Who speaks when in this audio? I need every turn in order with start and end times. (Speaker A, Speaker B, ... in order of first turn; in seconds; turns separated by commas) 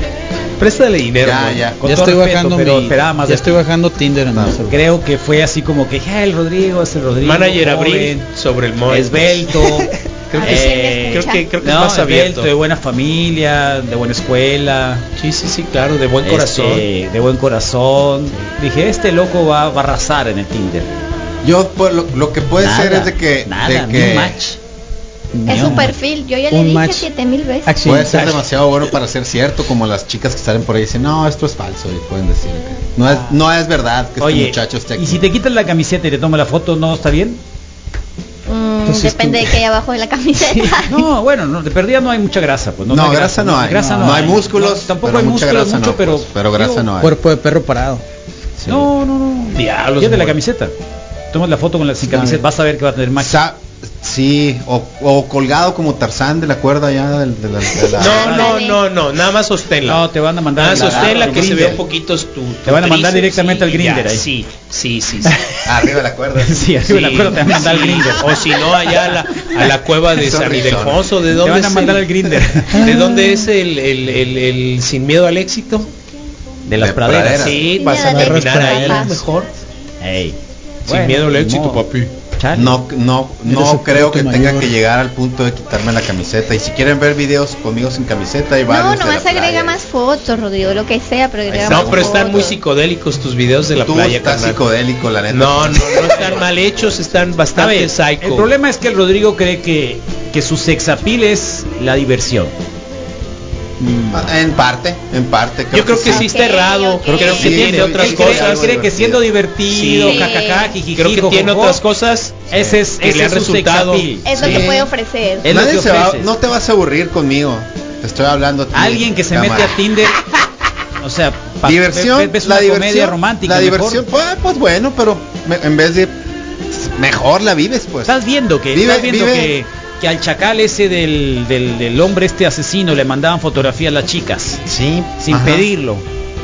Speaker A: 0.6-1.6, Speaker B: 1.2-1.8, Speaker C: 1.8-3.6, Speaker D: 1.8-4.8, Speaker C: 4.7-8.3, Speaker A: 7.2-9.8, Speaker C: 8.9-15.0, Speaker A: 10.3-12.5, Speaker E: 10.3-11.5, Speaker A: 15.2-16.9, Speaker C: 16.2-20.9, Speaker B: 21.4-24.4, Speaker C: 22.6-24.6, Speaker D: 25.3-25.9, Speaker E: 25.4-27.7, Speaker C: 25.5-25.9, Speaker D: 26.5-27.1, Speaker D: 27.6-28.4, Speaker B: 27.8-35.2, Speaker C: 34.2-37.4, Speaker E: 38.5-41.0, Speaker D: 38.9-39.5, Speaker C: 40.8-46.9, Speaker B: 42.9-47.1, Speaker D: 43.7-44.1, Speaker D: 47.0-48.0, Speaker C: 48.7-50.7, Speaker A: 49.5-50.4, Speaker C: 51.3-53.4, Speaker D: 52.1-52.4, Speaker B: 53.2-58.5, Speaker A: 58.0-60.0, Speaker E: 58.0-58.8, Speaker C: 59.8-61.8, Speaker A: 60.5-65.3, Speaker B: 60.7-61.6, Speaker C: 62.6-64.2, Speaker B: 65.7-67.9, Speaker C: 66.4-68.5, Speaker A: 66.9-72.0, Speaker B: 70.1-71.1, Speaker C: 71.3-73.1, Speaker D: 72.7-73.0, Speaker A: 72.8-75.9, Speaker C: 76.7-77.7, Speaker B: 76.8-77.7, Speaker A: 77.3-79.5, Speaker E: 77.7-79.2, Speaker D: 78.0-79.1, Speaker C: 80.0-82.8, Speaker A: 80.9-82.1, Speaker B: 82.5-89.8, Speaker D: 83.5-84.7, Speaker E: 88.7-92.6, Speaker B: 91.5-92.5, Speaker A: 91.7-94.6, Speaker B: 93.8-97.4, Speaker A: 95.3-98.5, Speaker C: 97.5-102.5, Speaker C: 103.8-104.3, Speaker B: 104.1-106.3, Speaker A: 105.7-108.8, Speaker E: 106.1-107.6, Speaker B: 107.1-109.2, Speaker C: 107.1-111.8, Speaker A: 109.7-110.3, Speaker E: 110.0-110.7, Speaker A: 110.9-114.6, Speaker C: 112.5-114.7, Speaker E: 114.2-115.5, Speaker B: 114.3-114.9, Speaker C: 115.4-116.3, Speaker B: 115.4-119.8, Speaker C: 118.7-120.2, Speaker C: 121.0-124.0, Speaker B: 121.6-126.1, Speaker B: 126.7-128.2, Speaker C: 128.1-134.6, Speaker B: 128.7-129.6, Speaker B: 134.7-135.7, Speaker C: 135.2-136.0